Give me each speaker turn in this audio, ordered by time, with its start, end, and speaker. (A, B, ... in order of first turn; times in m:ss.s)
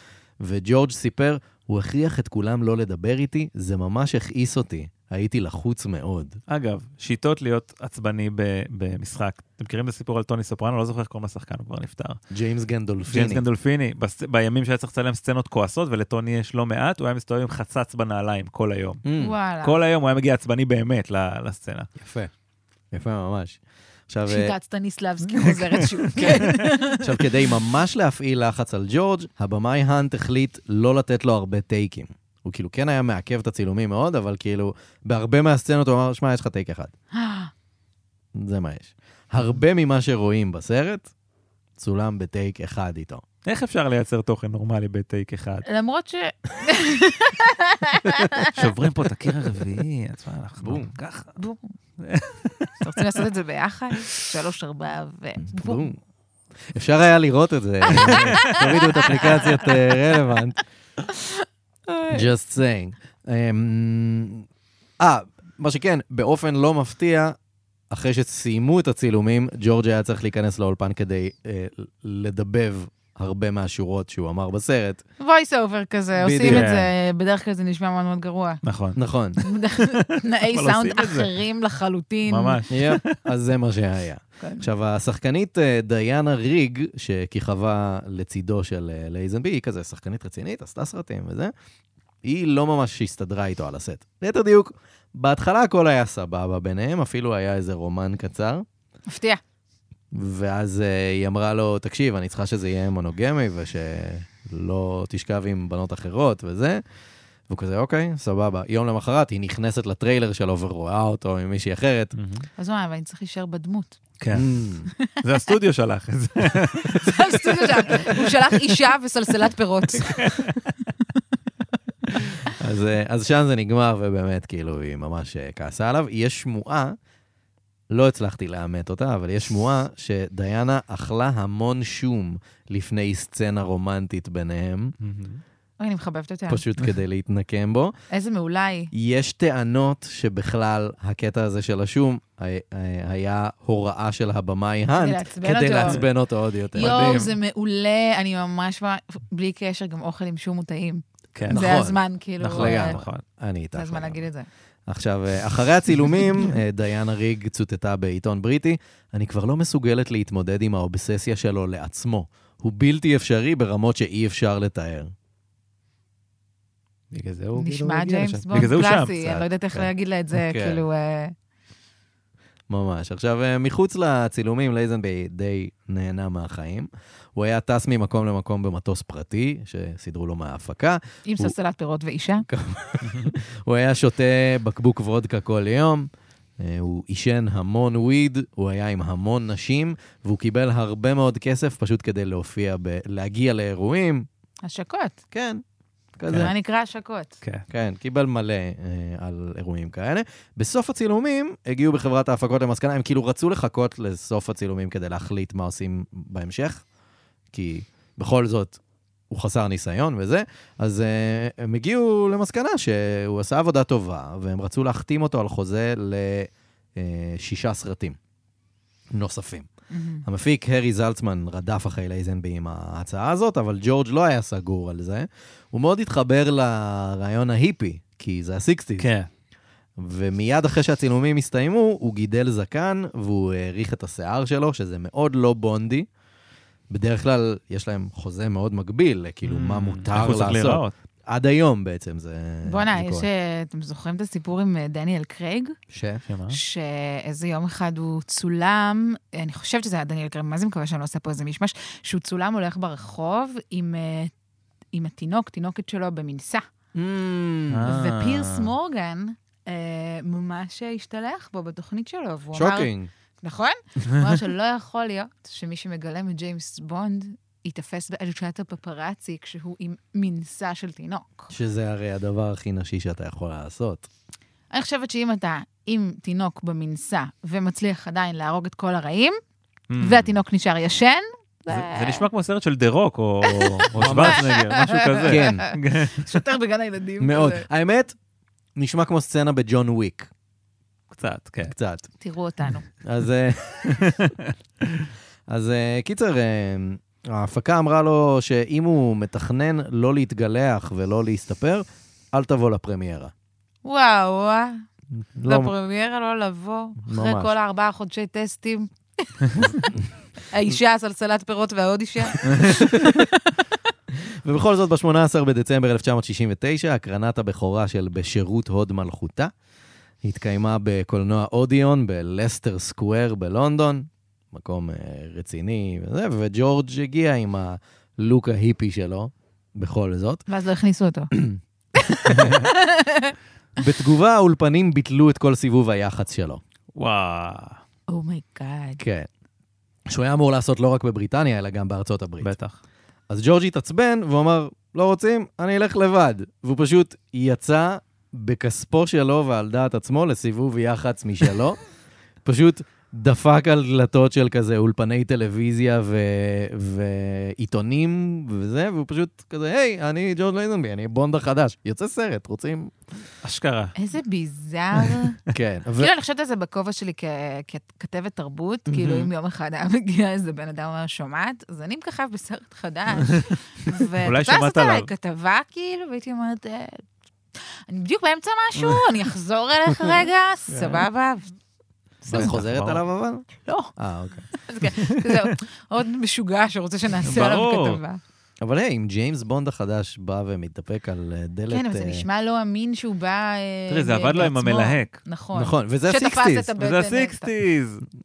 0:00.4-0:06.4 A
0:06.5-0:12.2 B
0:12.3-0:13.4 A
0:13.1-0:19.0 B
0:19.0-0:19.3 A
0:19.2-0:19.8 C
0:19.6-0:21.9 B
0:22.0-0:22.3 A
0:22.9-0:24.5 A
0:24.3-0:27.3 C
0:25.4-0:26.7 B
0:26.2-0:36.9 A
0:37.1-0:37.5 C
0:38.3-0:41.1 A
0:41.8-0:43.2 A
0:43.4-0:45.6 B
0:45.7-0:48.7 C
0:48.5-0:51.4 B
0:50.6-0:50.9 A
0:51.4-0:51.7 C
0:52.0-0:53.2 B
0:52.8-0:55.9 C
0:55.4-0:56.0 A
0:56.7-1:00.6 A
0:58.0-0:59.8 C
0:58.1-0:59.4 B
1:01.1-1:02.3 C
1:02.1-1:04.5 A
1:05.0-1:07.4 A
1:07.9-1:15.0 A
1:15.2-1:18.6 C
1:16.2-1:16.7 A
1:16.4-1:16.9 B
1:18.6-1:21.3 B
1:19.0-1:19.4 A
1:19.4-1:22.6 C
1:22.3-1:23.2 B
1:22.7-1:31.5 A
1:24.4-1:24.7 C
1:32.2-1:38.6 A
1:39.1-1:39.4 C
1:40.1-1:46.8 A
1:47.5-1:52.2 A
1:52.2-1:52.5 B
1:52.6-1:54.0 C
1:54.2-1:54.5 B
1:54.3-1:54.9 A
1:55.2-1:58.7 B
1:57.0-2:00.4 C
2:00.0-2:00.7 B
2:02.4-2:07.0 A
2:07.9-2:15.0 A
2:15.0-2:15.4 B
2:15.8-2:16.6 C
2:16.5-2:17.9 A
2:18.1-2:18.9 C
2:18.9-2:27.3 A
2:25.0-2:26.0 C
2:26.8-2:27.3 B
2:26.8-2:33.0 C
2:31.4-2:31.7 B
2:31.5-2:34.3 A
2:32.4-2:33.2 B
2:33.8-2:34.5 C
2:34.9-2:45.1 A
2:47.1-2:49.2 B
2:47.6-2:51.3 C
2:48.6-2:50.8 A
2:52.7-3:01.6 A
3:01.3-3:02.5 C
3:02.5-3:06.1 A
3:03.0-3:03.3 B
3:06.6-3:14.3 A
3:14.6-3:15.2 C
3:15.3-3:15.6 A
3:16.2-3:16.5 A
3:16.3-3:17.4 C
3:17.7-3:26.8 A
3:27.5-3:38.2 A
3:39.1-3:39.7 A
3:39.9-3:40.2 C
3:40.2-3:49.1 A
3:49.0-3:49.3 B
3:50.0-3:56.1 A
3:56.9-4:03.3 A
3:59.4-4:00.9 B
4:02.7-4:05.8 C
4:05.9-4:06.2 A
4:06.3-4:06.6 B
4:06.5-4:14.3 C
4:14.9-4:16.7 C
4:17.0-4:18.7 A
4:17.7-4:18.4 B
4:17.8-4:22.9 C
4:22.5-4:23.1 A
4:23.4-4:31.5 C
4:31.5-4:34.1 A
4:34.7-4:39.4 C
4:39.9-4:40.3 B
4:40.0-4:42.3 C
4:41.7-4:46.4 B
4:43.5-4:47.7 C
4:43.9-4:44.5 A
4:45.2-4:45.7 A
4:47.2-4:48.2 A
4:48.8-4:50.3 A
4:51.1-4:51.7 B
4:51.7-4:52.1 A
4:52.2-4:52.9 C
4:53.0-4:54.1 A
4:53.9-4:55.1 B
4:55.5-5:03.3 A
5:03.8-5:04.8 C
5:05.4-5:05.7 A
5:05.5-5:13.6 C
5:07.0-5:07.5 A
5:12.5-5:12.7 B
5:12.5-5:13.3 A
5:14.2-5:19.5 A
5:20.2-5:30.4 A
5:30.5-5:31.3 C
5:31.3-5:31.6 A
5:32.0-5:33.4 C
5:32.1-5:32.7 A
5:33.8-5:36.6 A
5:36.9-5:37.8 B
5:38.1-5:39.0 C
5:39.0-5:39.3 A
5:40.1-5:42.5 A
5:42.4-5:42.8 B
5:43.3-5:51.8 A
5:52.4-6:03.0 A
6:03.4-6:03.9 B
6:04.0-6:05.4 C
6:05.5-6:06.1 A
6:06.0-6:17.0 C
6:08.9-6:09.3 A
6:14.2-6:15.1 B
6:17.6-6:21.5 C
6:22.3-6:22.5 C
6:22.3-6:24.5 A
6:22.3-6:23.0 B
6:23.7-6:23.9 C
6:24.5-6:28.2 C
6:25.0-6:25.6 B
6:27.2-6:28.0 B
6:28.6-6:32.2 A
6:31.7-6:37.5 C
6:33.9-6:35.2 B
6:35.5-6:36.7 A
6:36.8-6:38.0 B